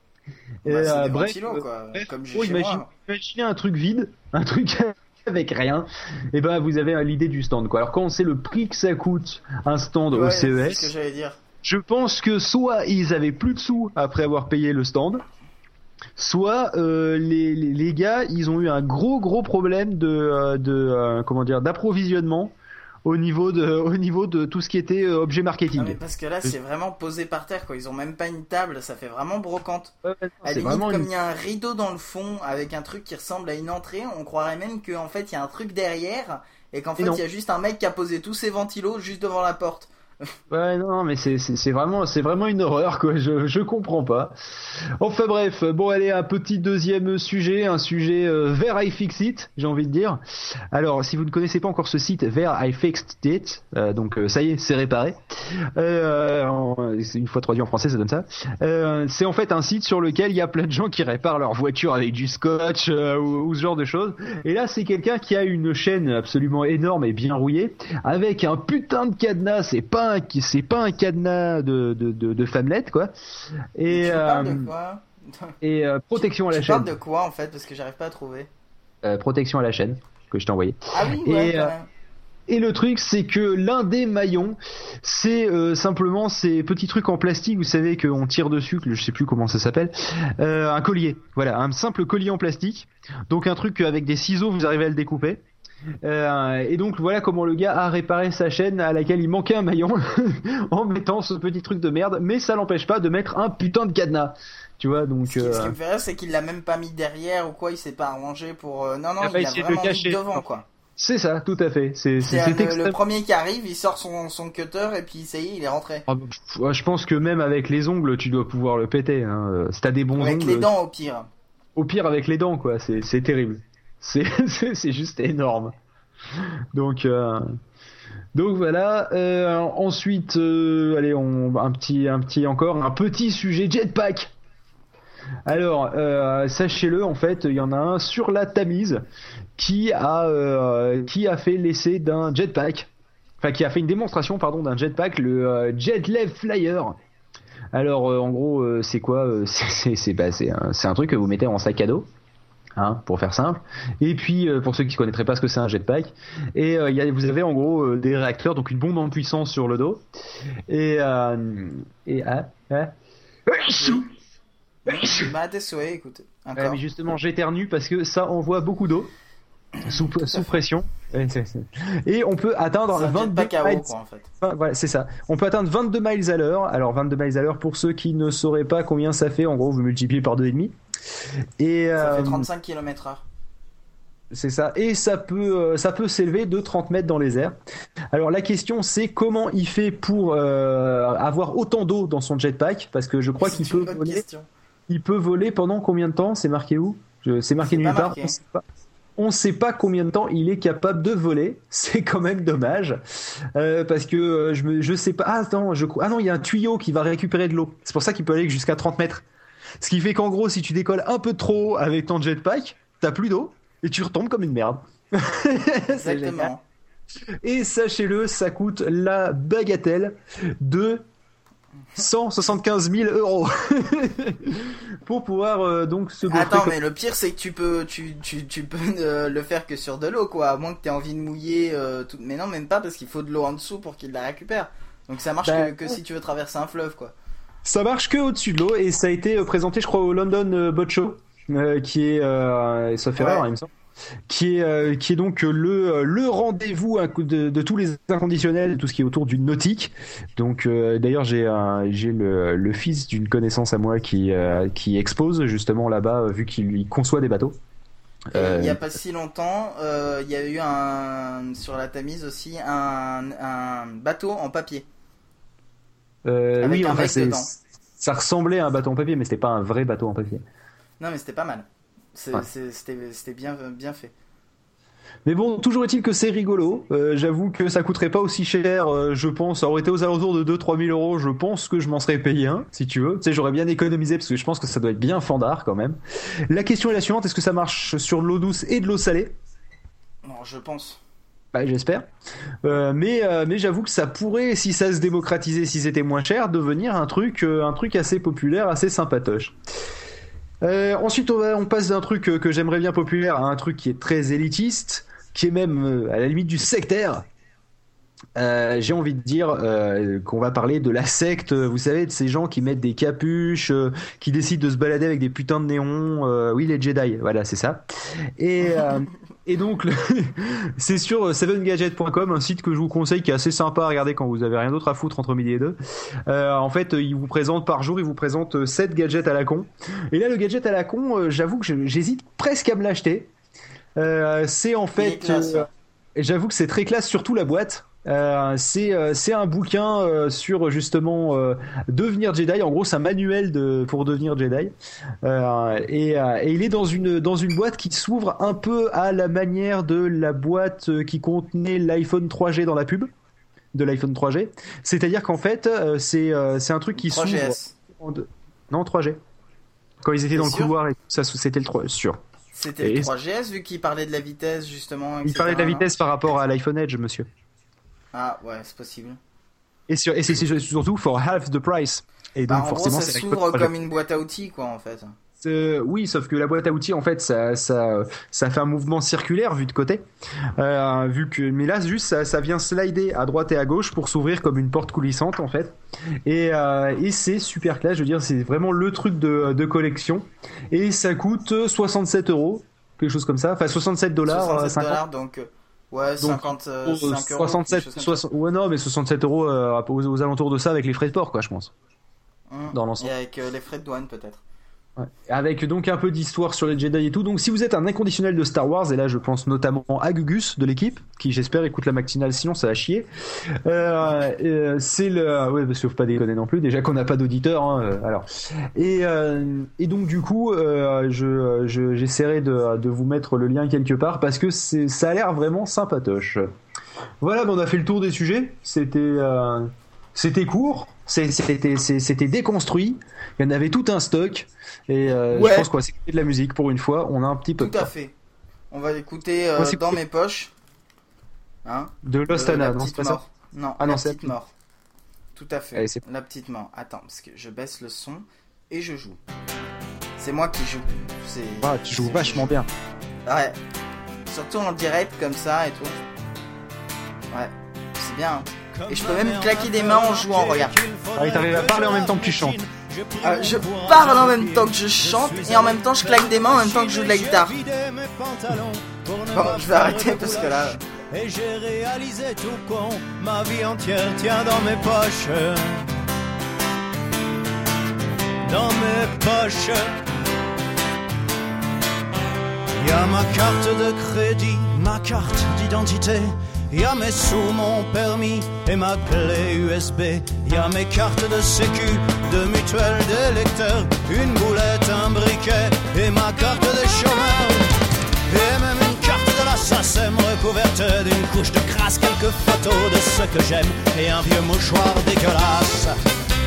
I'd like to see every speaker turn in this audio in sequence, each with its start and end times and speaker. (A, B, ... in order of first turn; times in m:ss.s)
0:00.6-0:10.9 A
0:00.6-0:02.9 B
0:10.1-0:11.4 B
0:11.6-0:15.2 A
0:16.2-0:22.5 A
0:23.0-0:26.5 A
0:25.8-0:29.9 B
0:30.0-0:31.1 A
0:30.4-0:39.9 B
0:40.5-0:44.3 A
0:45.0-0:50.2 A
0:50.7-0:55.2 A
0:55.8-1:13.1 A
1:13.8-1:14.7 A
1:13.9-1:15.5 B
1:15.6-1:16.9 A
1:16.1-1:18.5 B
1:19.0-1:21.7 A
1:20.9-1:21.8 B
1:22.5-1:35.4 A
1:36.0-1:45.8 A
1:45.2-1:50.6 B
1:49.2-1:50.4 A
1:51.0-1:53.0 A
1:52.2-1:56.0 B
1:56.1-2:00.7 A
2:00.2-2:01.3 B
2:01.8-2:05.7 A
2:06.7-2:07.4 A
2:08.3-2:14.3 A
2:15.4-2:19.0 A
2:19.6-2:22.9 A
2:23.4-2:26.9 A
2:27.7-2:32.0 A
2:32.8-2:40.0 A
2:40.7-2:42.9 A
2:43.5-2:44.0 A
2:43.8-2:44.0 B
2:44.8-2:46.8 B
2:44.9-2:45.3 A
2:46.6-2:49.1 A
2:49.8-2:50.4 B
2:49.8-2:53.9 A
2:52.9-2:54.3 B
2:54.4-3:00.7 A
3:01.6-3:02.5 A
3:02.0-3:03.2 B
3:04.3-3:07.6 A
3:08.1-3:14.2 A
3:13.4-3:14.5 B
3:14.9-3:18.6 A
3:17.6-3:18.4 B
3:19.2-3:23.0 A
3:23.6-3:29.2 A
3:29.8-3:36.5 A
3:35.8-3:36.6 B
3:37.4-3:41.0 A
3:42.0-3:46.7 A
3:46.3-3:57.1 B
3:55.4-3:56.0 A
3:57.6-4:03.7 A
4:03.2-4:03.5 B
4:04.3-4:17.6 A
4:18.3-4:18.8 A
4:18.3-4:24.9 B
4:26.2-4:30.4 A
4:26.6-4:27.5 B
4:31.0-4:34.1 B
4:35.2-4:46.0 A
4:46.5-4:49.3 A
4:50.2-4:51.0 B
4:51.5-4:52.0 A
4:52.6-4:59.5 A
5:00.6-5:07.2 A
5:08.4-5:17.8 A
5:18.4-5:25.7 A
5:26.3-5:33.3 A
5:34.0-5:35.6 A
5:34.9-5:35.7 B
5:36.2-5:53.1 A
5:53.7-5:59.2 A
5:56.9-5:57.7 B
6:00.0-6:02.2 A
6:00.3-6:00.7 B
6:02.5-6:05.9 B
6:02.8-6:03.1 A
6:05.2-6:07.2 A
6:08.1-6:09.2 B
6:09.9-6:13.7 A
6:12.5-6:15.1 B
6:15.4-6:20.0 A
6:20.6-6:25.7 A
6:26.2-6:35.0 A
6:34.2-6:38.2 B
6:36.2-6:41.7 A
6:42.5-6:44.4 B
6:42.7-6:43.1 A
6:45.0-6:53.1 A
6:53.6-6:58.2 A
6:58.8-7:06.4 A
7:07.2-7:17.9 A
7:15.3-7:15.7 B
7:17.6-7:18.1 B
7:18.7-7:20.5 B
7:19.6-7:20.0 A
7:21.6-7:24.5 B
7:22.0-7:23.2 A
7:23.8-7:24.3 A
7:25.4-7:29.2 B
7:25.7-7:26.0 A
7:30.2-7:32.6 B
7:31.6-7:32.7 A
7:33.2-7:33.6 B
7:34.3-7:36.0 B
7:37.3-7:40.8 B
7:38.7-7:55.9 C
7:41.2-7:42.6 A
7:43.2-7:47.6 B
7:49.3-7:50.8 B
7:58.4-8:00.0 C
8:02.8-8:17.8 C
8:18.3-8:26.0 C